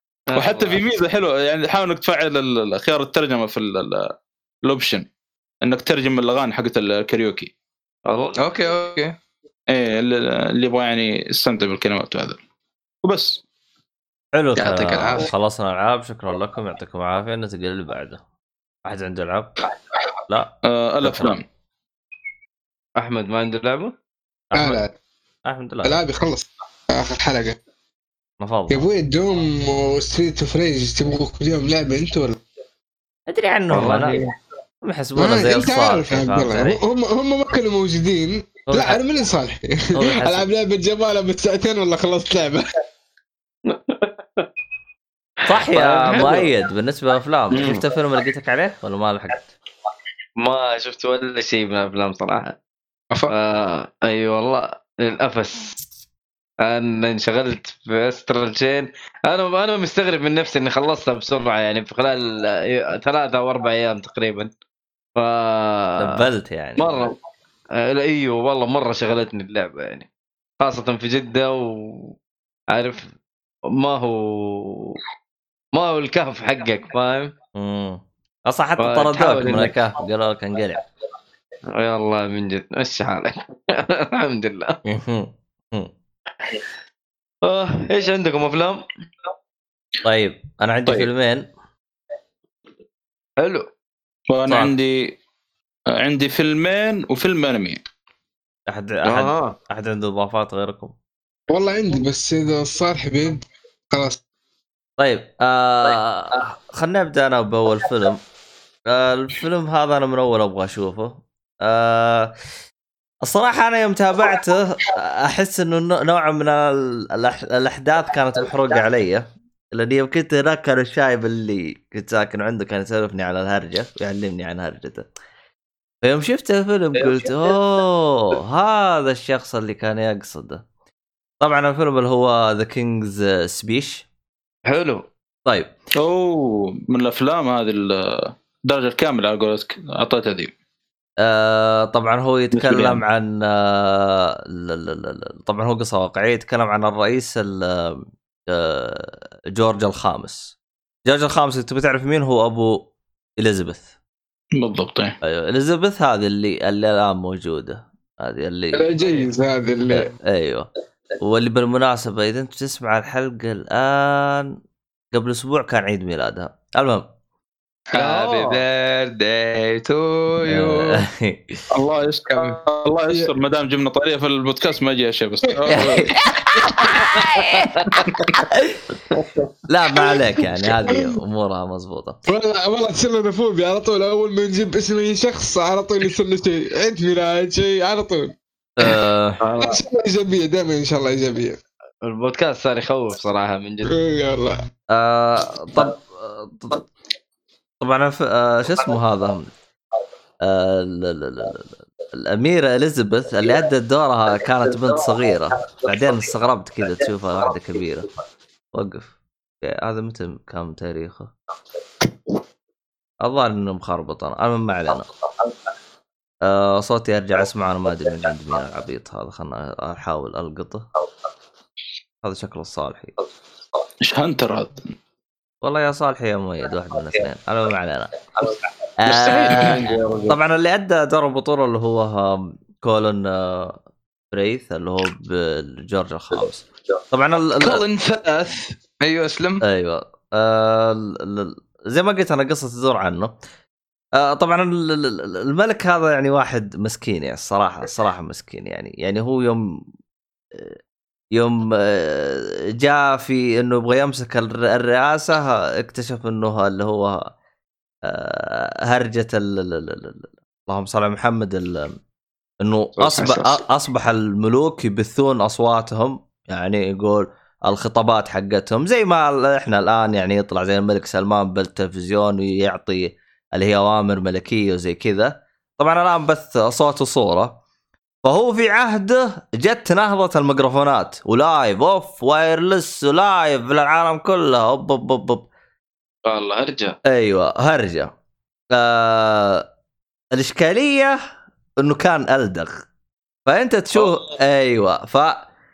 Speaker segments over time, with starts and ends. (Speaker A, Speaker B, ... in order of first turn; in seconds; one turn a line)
Speaker A: 0.3-0.8
Speaker B: 0.3-4.1
Speaker B: 4.7-5.1
Speaker B: 5.6-7.5
Speaker A: 8.1-8.6
Speaker C: 8.4-9.1
Speaker B: 9.7-12.4
Speaker B: 13.0-13.4
Speaker D: 14.3-18.2
Speaker C: 14.6-15.3
Speaker D: 18.9-19.5
Speaker D: 20.3-21.4
Speaker B: 20.6-21.4
Speaker A: 23.0-23.9
Speaker D: 24.5-24.8
Speaker E: 24.5-24.9
Speaker D: 25.5-26.0
Speaker E: 25.8-27.6
Speaker D: 28.4-28.9
Speaker E: 28.7-32.4
Speaker D: 33.3-34.2
Speaker E: 33.7-34.3
Speaker A: 33.9-34.2
Speaker D: 34.8-36.8
Speaker E: 35.2-42.7
Speaker D: 38.7-39.0
Speaker D: 40.0-40.5
Speaker A: 43.7-44.5
Speaker D: 45.5-49.5
Speaker A: 45.7-46.5
Speaker A: 50.4-52.5
Speaker A: 53.3-55.8
Speaker A: 56.6-64.5
Speaker A: 65.2-66.0
Speaker D: 66.0-67.1
Speaker A: 66.8-67.2
Speaker A: 67.8-70.1
Speaker A: 70.6-72.1
Speaker A: 72.7-73.1
Speaker A: 73.7-75.0
Speaker A: 75.8-77.3
Speaker D: 77.5-80.8
Speaker A: 78.8-79.9
Speaker A: 81.8-84.8
Speaker D: 84.9-85.9
Speaker A: 87.5-88.8
Speaker D: 90.0-91.5
Speaker A: 93.4-93.7
Speaker B: 94.3-95.2
Speaker B: 95.9-97.8
Speaker D: 98.7-100.9
Speaker A: 99.0-99.5
Speaker E: 101.5-104.2
Speaker D: 105.0-108.2
Speaker D: 108.9-112.3
Speaker D: 113.2-125.1
Speaker D: 126.0-130.7
Speaker D: 131.4-134.1
Speaker A: 134.7-135.1
Speaker D: 135.5-135.7
Speaker B: 135.9-140.5
Speaker D: 141.2-150.5
Speaker B: 142.5-143.0
Speaker D: 151.1-153.9
Speaker B: 154.6-155.2
Speaker D: 155.2-158.9
Speaker E: 158.7-160.1
Speaker D: 159.9-160.7
Speaker D: 161.2-164.6
Speaker D: 165.1-167.1
Speaker C: 167.9-171.0
Speaker A: 167.9-168.6
Speaker D: 170.5-171.6
Speaker B: 171.7-176.2
Speaker C: 172.3-172.6
Speaker D: 175.7-177.7
Speaker D: 179.7-182.2
Speaker E: 180.6-181.2
Speaker E: 182.3-188.3
Speaker D: 188.8-189.4
Speaker A: 189.4-189.8
Speaker E: 189.6-191.6
Speaker A: 192.0-193.9
Speaker E: 193.8-194.6
Speaker D: 194.9-196.9
Speaker D: 197.8-199.5
Speaker D: 200.4-208.1
Speaker D: 208.7-211.3
Speaker D: 213.2-215.1
Speaker D: 216.4-220.9
Speaker D: 222.2-223.2
Speaker B: 224.0-224.9
Speaker D: 225.6-228.1
Speaker D: 229.0-233.8
Speaker B: 229.1-230.3
Speaker C: 229.2-230.0
Speaker D: 234.3-237.8
Speaker C: 237.6-239.6
Speaker D: 239.6-243.3
Speaker D: 244.2-249.8
Speaker D: 250.5-250.8
Speaker D: 251.3-257.3
Speaker D: 258.1-262.0
Speaker D: 262.6-277.6
Speaker C: 263.0-263.6
Speaker D: 278.2-285.5
Speaker A: 286.2-287.0
Speaker D: 287.1-288.1
Speaker D: 288.7-289.7
Speaker D: 290.3-291.2
Speaker D: 291.8-292.8
Speaker D: 293.5-295.4